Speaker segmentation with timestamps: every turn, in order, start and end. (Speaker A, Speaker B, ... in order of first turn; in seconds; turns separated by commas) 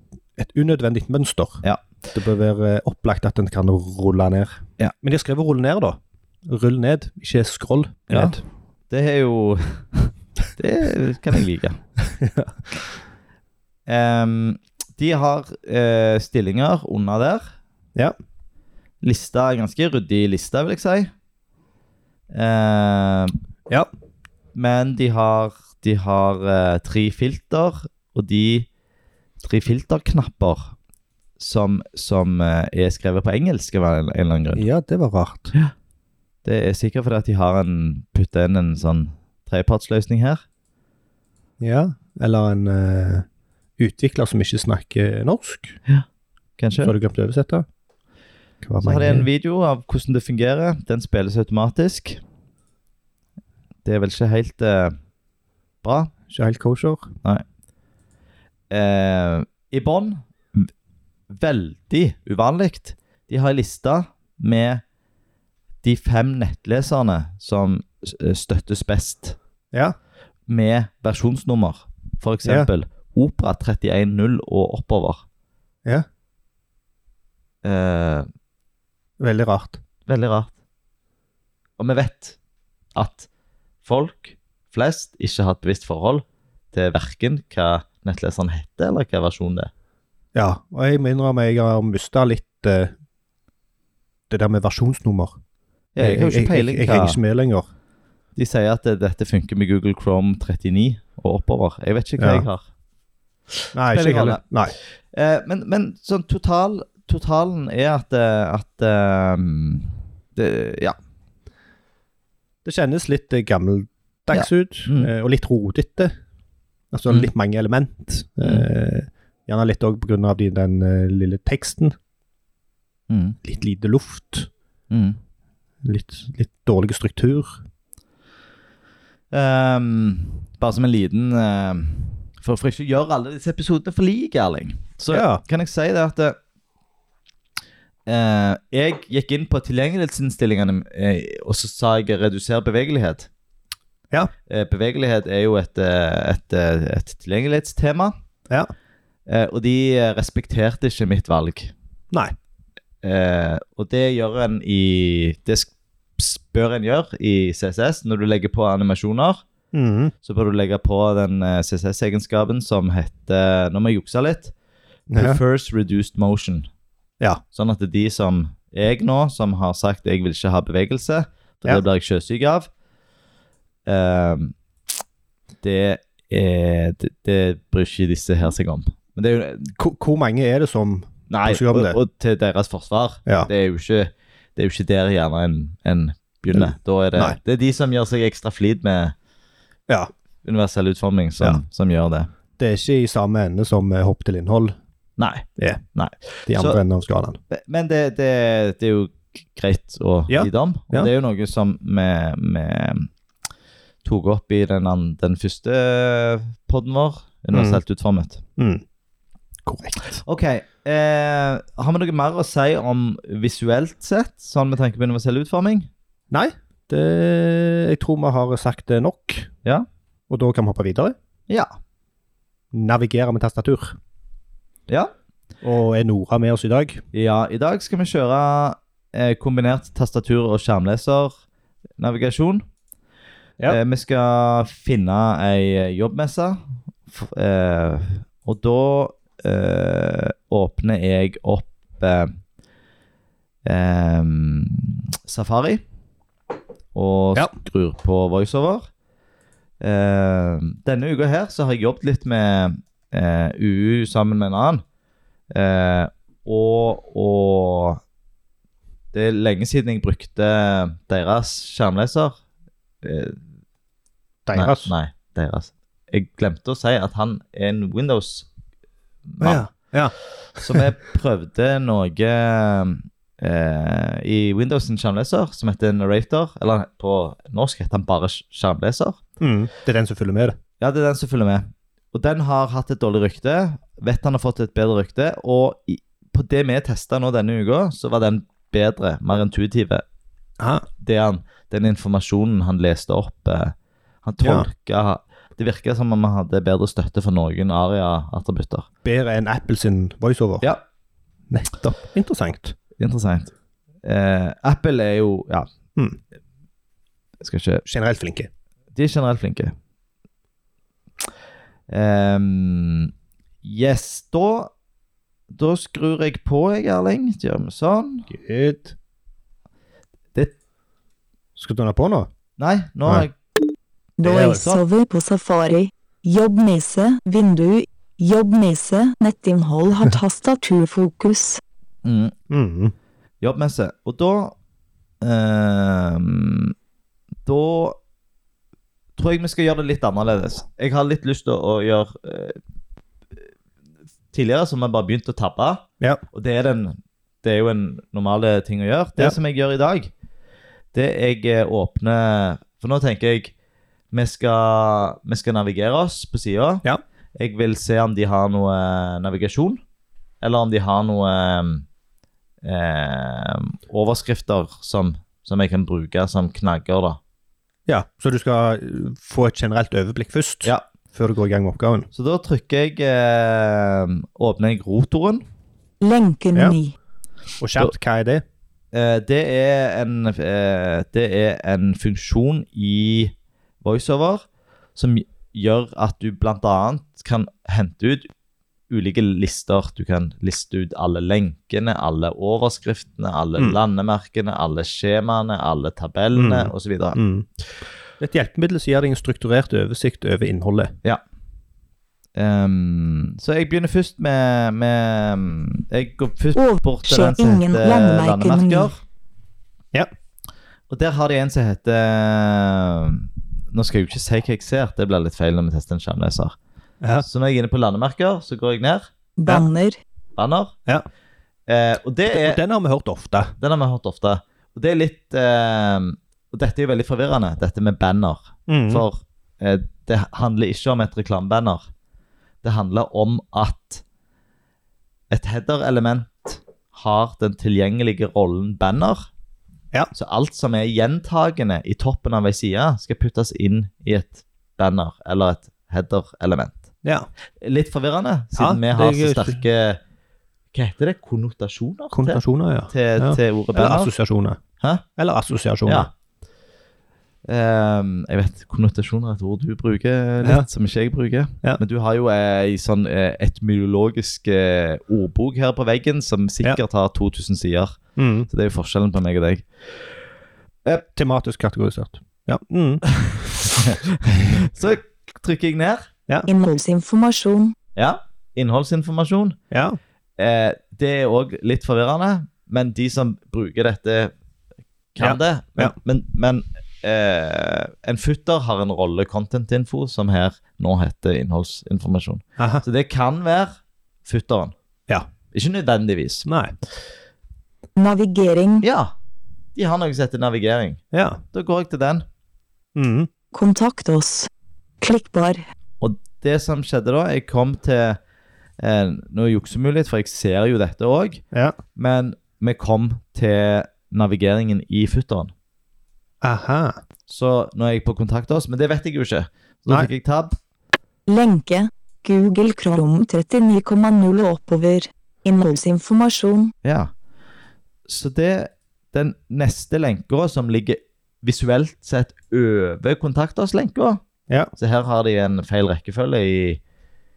Speaker A: 0.4-8.4, Speaker B: 8.1-11.8, Speaker A: 12.1-12.8, Speaker B: 13.9-17.5, Speaker B: 19.0-21.1, Speaker B: 22.3-23.3, Speaker B: 24.5-28.7, Speaker B: 29.4-30.7, Speaker B: 31.4-34.6, Speaker A: 34.5-35.5, Speaker B: 36.4-40.4, Speaker A: 41.6-43.2, Speaker A: 43.8-45.8, Speaker B: 46.6-46.9, Speaker A: 46.8-47.6, Speaker A: 48.6-49.3, Speaker B: 48.8-52.2, Speaker B: 53.8-55.0, Speaker B: 55.8-56.1, Speaker A: 56.3-57.1, Speaker B: 58.7-60.7, Speaker B: 61.3-64.8, Speaker B: 65.8-69.3, Speaker B: 70.5-75.2, Speaker A: 72.4-72.7, Speaker B: 77.6-78.3, Speaker A: 79.2-79.8, Speaker B: 80.1-80.5, Speaker B: 81.8-82.4, Speaker B: 82.9-83.3, Speaker B: 83.8-89.7, Speaker A: 90.3-92.9, Speaker A: 94.3-95.4, Speaker B: 95.9-97.2, Speaker A: 96.0-97.7, Speaker B: 98.3-102.6, Speaker A: 102.2-102.5, Speaker A: 103.7-104.7, Speaker B: 103.8-104.4, Speaker B: 105.1-111.0, Speaker A: 112.6-116.1, Speaker B: 114.3-115.1, Speaker A: 116.9-122.0, Speaker B: 123.1-123.3, Speaker A: 123.4-124.5, Speaker B: 124.9-125.2, Speaker A: 125.8-127.6, Speaker B: 129.3-136.4, Speaker A: 135.1-135.4, Speaker B: 138.1-143.3, Speaker B: 144.5-148.1, Speaker B: 149.3-151.7, Speaker B: 153.0-159.4, Speaker A: 159.7-160.1, Speaker B: 160.2-164.5, Speaker A: 165.1-165.4, Speaker B: 165.1-166.7, Speaker B: 167.5-172.7, Speaker B: 173.8-174.5, Speaker B: 175.6-179.7, Speaker A: 179.8-182.0, Speaker B: 181.3-189.1, Speaker A: 186.5-187.4, Speaker B: 190.4-192.3, Speaker A: 192.6-194.8, Speaker B: 195.2-196.8, Speaker A: 195.6-195.8, Speaker A: 196.5-197.4, Speaker B: 197.5-203.1, Speaker A: 200.3-201.1, Speaker B: 204.0-208.4, Speaker A: 207.5-207.8, Speaker A: 208.6-208.8, Speaker A: 209.6-210.2, Speaker B: 210.1-215.9, Speaker A: 216.3-219.5, Speaker A: 220.3-221.1, Speaker A: 222.7-224.0, Speaker A: 225.6-227.0, Speaker B: 227.1-231.3, Speaker B: 232.0-232.6, Speaker B: 233.7-242.3, Speaker B: 243.6-245.8, Speaker B: 246.9-248.9, Speaker B: 249.8-254.8, Speaker B: 255.5-258.0, Speaker B: 259.1-262.4, Speaker B: 263.0-263.4, Speaker A: 264.4-264.9, Speaker B: 264.5-268.5, Speaker B: 269.3-269.6, Speaker A: 269.4-270.9, Speaker B: 270.6-279.2, Speaker A: 279.4-280.6, Speaker B: 280.8-290.0, Speaker A: 290.6-290.8, Speaker B: 291.0-298.9, Speaker A: 294.4-294.7, Speaker A: 299.0-300.7, Speaker A: 301.5-302.7, Speaker B: 303.0-303.5, Speaker B: 304.0-305.7, Speaker B: 307.4-307.8, Speaker A: 307.8-308.5, Speaker B: 308.9-309.7, Speaker B: 311.9-313.1, Speaker B: 313.6-314.7, Speaker B: 315.5-318.3, Speaker A: 318.3-318.9, Speaker A: 321.6-322.3, Speaker B: 322.6-323.4, Speaker C: 324.2-331.6, Speaker B: 324.2-324.8, Speaker B: 332.0-332.3, Speaker A: 332.5-332.9, Speaker B: 333.4-334.5, Speaker B: 335.2-336.7, Speaker B: 337.4-338.0, Speaker B: 339.2-342.6, Speaker B: 344.3-350.1, Speaker B: 350.9-353.5, Speaker B: 354.1-356.8, Speaker B: 357.4-359.8, Speaker B: 360.4-361.9, Speaker B: 362.6-367.2, Speaker A: 367.9-372.1, Speaker B: 372.1-375.4, Speaker C: 376.0-376.9, Speaker A: 377.6-378.4, Speaker B: 378.9-388.3, Speaker B: 388.9-397.2, Speaker A: 396.3-397.5, Speaker A: 398.2-400.9, Speaker B: 402.4-408.9, Speaker C: 406.6-408.9, Speaker B: 410.9-416.6, Speaker A: 417.0-417.2, Speaker B: 417.2-419.1, Speaker C: 419.4-420.0, Speaker B: 420.4-420.7, Speaker B: 421.7-422.6, Speaker A: 422.3-423.5, Speaker B: 423.6-431.9, Speaker A: 428.7-429.0, Speaker B: 432.6-434.0, Speaker B: 435.3-439.3, Speaker B: 440.1-446.8, Speaker B: 447.6-450.0, Speaker A: 448.5-449.6, Speaker B: 450.7-454.1, Speaker A: 452.1-454.6, Speaker A: 455.1-456.1, Speaker B: 457.5-469.7, Speaker A: 460.4-460.7, Speaker A: 468.1-468.5, Speaker A: 471.1-473.1, Speaker B: 473.3-476.1, Speaker C: 476.5-477.7, Speaker B: 477.9-479.6, Speaker A: 479.7-480.0, Speaker B: 480.4-484.3, Speaker B: 485.1-494.7, Speaker A: 485.2-485.9, Speaker A: 492.6-492.8, Speaker B: 495.5-496.5, Speaker A: 496.4-496.7, Speaker C: 497.9-498.8, Speaker B: 498.8-499.1, Speaker B: 499.7-501.0, Speaker A: 501.1-501.4, Speaker B: 501.5-502.2, Speaker A: 502.9-503.3, Speaker C: 503.5-504.5, Speaker C: 505.0-505.6, Speaker B: 506.0-508.2, Speaker B: 508.8-511.4, Speaker B: 511.9-515.5, Speaker A: 516.4-517.0, Speaker B: 517.3-520.5, Speaker C: 521.3-526.7, Speaker B: 526.8-527.1, Speaker B: 528.1-534.2, Speaker B: 534.8-536.8